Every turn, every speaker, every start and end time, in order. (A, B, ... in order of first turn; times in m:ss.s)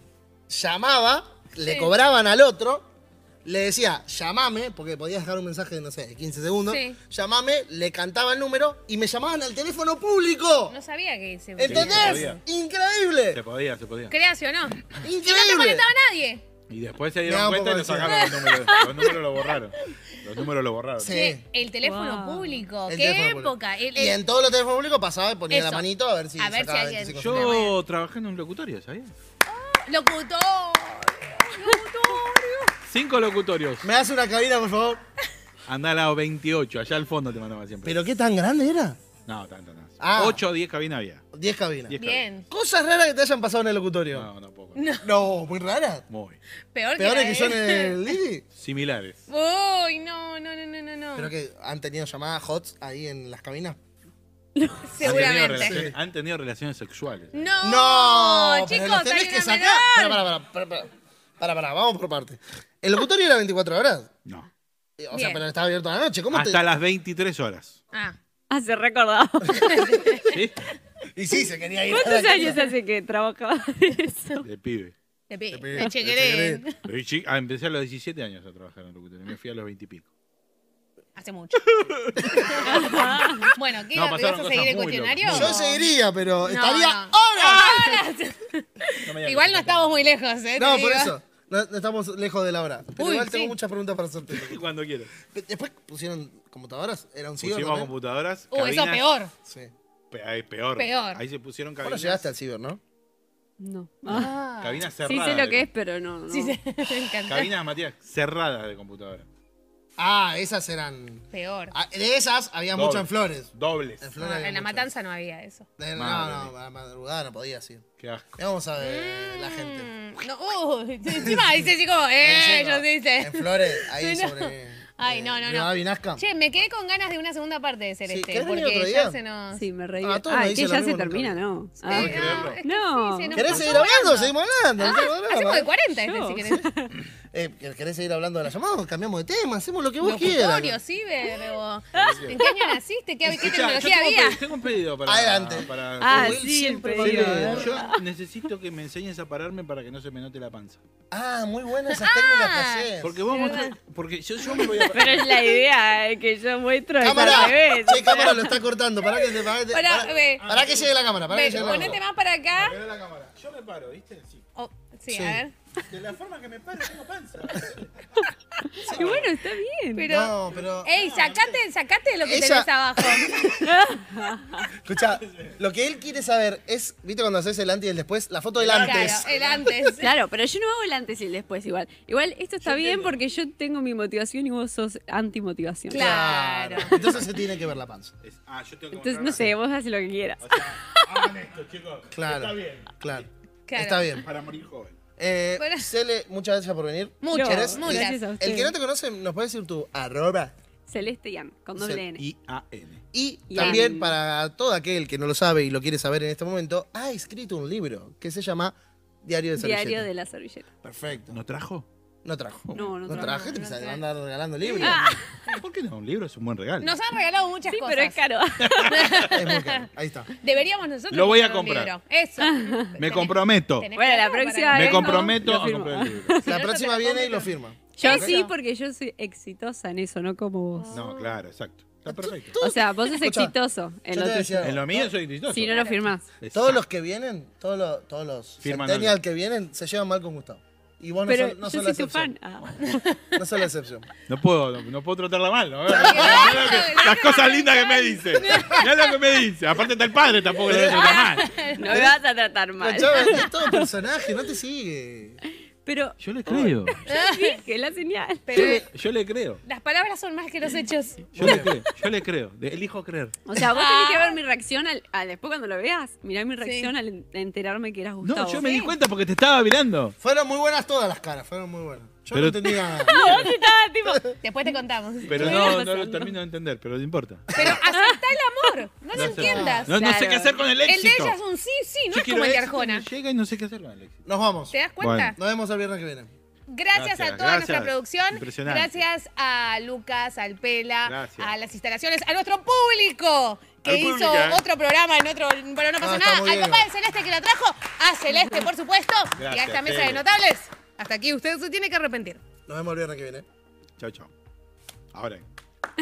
0:00.5-0:02.9 A
0:01.6-0:01.9 B
0:03.4-0:10.8 A
0:06.7-0:07.0 B
0:10.7-0:12.4 B
0:11.6-0:13.4 A
0:11.6-0:12.4 C
0:13.3-0:14.2 C
0:14.1-0:16.4 B
0:15.0-0:15.9 A
0:16.7-0:21.2 C
0:17.2-0:18.5 A
0:18.1-0:19.2 B
0:21.0-0:21.4 A
0:21.0-0:24.2 B
0:21.8-0:22.6 D
0:22.9-0:27.6 A
0:25.5-0:25.9 B
0:26.4-0:27.7 B
0:27.2-0:29.1 C
0:29.5-0:32.7 B
0:32.9-0:33.8 C
0:33.8-0:35.0 A
0:35.7-0:38.0 C
0:37.8-0:39.0 A
0:39.3-0:41.3 C
0:40.0-0:40.4 A
0:41.3-0:42.0 A
0:41.9-0:42.2 C
0:42.0-0:42.5 B
0:42.5-0:44.3 A
0:44.1-0:44.8 C
0:44.8-0:45.1 B
0:45.0-0:46.1 A
0:46.1-0:46.4 C
0:46.7-0:48.1 B
0:47.0-0:48.4 A
0:48.6-0:49.2 C
0:49.3-0:51.3 B
0:51.2-0:53.8 A
0:54.6-0:54.9 D
0:54.8-0:55.8 B
0:55.0-0:57.6 C
0:55.1-0:56.0 A
0:57.3-1:00.2 B
0:57.6-1:04.1 A
1:05.0-1:06.6 A
1:05.1-1:05.4 B
1:06.3-1:07.8 C
1:08.5-1:10.1 D
1:09.5-1:10.4 B
1:10.2-1:10.6 C
1:11.1-1:12.7 A
1:11.9-1:14.4 D
1:14.4-1:14.9 C
1:15.3-1:16.8 B
1:15.5-1:16.6 A
1:16.8-1:20.0 C
1:21.2-1:21.6 B
1:21.6-1:25.6 C
1:22.2-1:22.7 A
1:22.4-1:25.9 B
1:23.0-1:23.4 D
1:25.3-1:28.0 A
1:26.4-1:31.1 B
1:29.0-1:30.1 C
1:30.6-1:34.6 A
1:33.0-1:33.6 B
1:34.3-1:35.1 C
1:35.3-1:37.9 A
1:37.4-1:39.1 C
1:38.5-1:39.3 B
1:39.4-1:39.7 A
1:40.1-1:42.3 C
1:40.8-1:41.2 B
1:41.8-1:42.8 A
1:43.6-1:44.3 D
1:44.1-1:44.8 B
1:44.1-1:45.7 C
1:45.0-1:46.6 D
1:46.3-1:47.5 B
1:47.3-1:49.3 C
1:50.0-1:54.9 A
1:51.3-1:51.7 B
1:52.8-1:54.1 C
1:54.2-1:55.7 B
1:55.8-1:57.8 A
1:56.0-1:56.5 C
1:58.0-1:58.3 C
1:58.4-1:59.9 A
1:58.8-2:09.6 B
2:01.1-2:01.7 A
2:02.2-2:06.2 A
2:08.1-2:09.2 A
2:09.5-2:13.6 D
2:10.0-2:12.4 A
2:11.8-2:16.7 B
2:11.9-2:12.6 C
2:13.3-2:15.7 A
2:16.0-2:17.0 D
2:17.3-2:20.8 A
2:20.0-2:24.4 B
2:21.3-2:22.8 D
2:22.0-2:22.4 C
2:23.3-2:26.4 C
2:25.1-2:27.8 A
2:26.0-2:28.0 D
2:27.0-2:30.8 C
2:31.1-2:33.2 A
2:31.9-2:33.8 B
2:33.0-2:35.6 C
2:34.5-2:34.9 B
2:34.9-2:38.6 D
2:37.0-2:42.0 A
2:39.0-2:40.5 B
2:40.4-2:42.0 C
2:41.3-2:42.8 B
2:42.5-2:44.4 C
2:44.6-2:45.5 B
2:45.1-2:45.4 A
2:45.8-2:47.9 C
2:48.8-2:49.3 A
2:48.9-2:50.0 D
2:48.9-2:49.2 C
2:50.0-2:53.5 B
2:50.0-2:50.9 A
2:51.0-2:51.5 C
2:52.2-2:53.8 A
2:53.6-2:54.7 D
2:54.8-2:59.3 A
2:55.3-2:55.5 C
2:58.6-2:59.9 C
2:58.7-3:00.1 B
3:00.0-3:06.2 D
3:02.6-3:03.1 C
3:05.9-3:07.0 B
3:05.9-3:08.1 A
3:07.0-3:07.2 C
3:08.2-3:09.5 C
3:08.9-3:11.3 D
3:10.4-3:13.2 C
3:12.1-3:14.3 A
3:13.7-3:14.2 B
3:14.2-3:15.0 C
3:15.2-3:20.5 A
3:15.6-3:15.9 B
3:17.2-3:18.2 B
3:17.3-3:18.7 D
3:20.9-3:22.2 D
3:21.8-3:22.0 A
3:22.2-3:23.0 C
3:23.1-3:30.1 A
3:23.5-3:24.2 D
3:23.6-3:23.8 B
3:29.6-3:30.7 D
3:30.8-3:31.4 A
3:31.1-3:31.9 C
3:32.2-3:35.1 A
3:32.8-3:33.6 D
3:32.8-3:34.0 B
3:34.8-3:35.6 B
3:34.8-3:35.2 D
3:35.5-3:37.0 C
3:36.8-3:38.2 B
3:37.7-3:39.1 D
3:38.6-3:39.4 C
3:38.9-3:39.9 B
3:39.2-3:40.3 A
3:40.4-3:45.3 B
3:41.1-3:41.9 C
3:42.4-3:43.0 D
3:43.0-3:43.9 C
3:44.0-3:46.6 D
3:44.7-3:46.4 C
3:46.4-3:48.4 A
3:46.5-3:48.5 B
3:48.0-3:50.9 D
3:50.8-3:51.4 B
3:50.9-3:52.6 C
3:52.1-3:53.6 A
3:52.6-3:54.8 D
3:54.1-3:55.1 A
3:54.6-3:55.9 C
3:55.5-3:56.2 D
3:55.7-3:56.0 B
3:56.4-3:56.8 C
3:56.5-4:02.3 A
3:58.6-3:59.2 C
4:01.3-4:03.0 D
4:02.8-4:03.4 B
4:03.4-4:04.1 A
4:04.3-4:11.6 C
4:05.9-4:06.9 A
4:05.9-4:08.9 B
4:10.6-4:11.2 A
4:10.7-4:12.1 B
4:11.8-4:13.9 D
4:11.8-4:12.2 A
4:12.8-4:15.4 A
4:15.8-4:18.8 D
4:16.2-4:17.0 C
4:17.1-4:17.6 B
4:18.5-4:18.8 B
4:18.5-4:18.8 A
4:18.6-4:19.6 C
4:19.6-4:21.3 B
4:21.3-4:23.4 C
4:21.4-4:21.7 A
4:23.5-4:28.8 D
4:23.7-4:24.4 B
4:26.6-4:26.9 B
4:28.2-4:30.2 C
4:28.6-4:28.9 B
4:30.2-4:33.4 A
4:32.3-4:33.5 C
4:33.1-4:34.4 D
4:34.4-4:35.8 B
4:35.3-4:36.3 D
4:35.3-4:37.6 C
4:37.5-4:37.8 A
4:37.5-4:39.9 B
4:37.7-4:38.2 D
4:39.1-4:41.4 C
4:39.2-4:39.9 A
4:39.9-4:40.6 D
4:40.8-4:43.0 B
4:42.1-4:44.2 C
4:44.3-4:44.8 A
4:44.7-4:45.4 B
4:45.0-4:45.3 C
4:45.3-4:46.3 A
4:46.7-5:02.4 B
4:46.9-4:49.0 C
4:51.1-4:51.5 C
4:53.8-4:54.6 C
4:56.0-4:56.9 A
4:59.4-5:00.2 C
5:02.7-5:03.4 A
5:04.0-5:04.3 C
5:05.1-5:05.4 C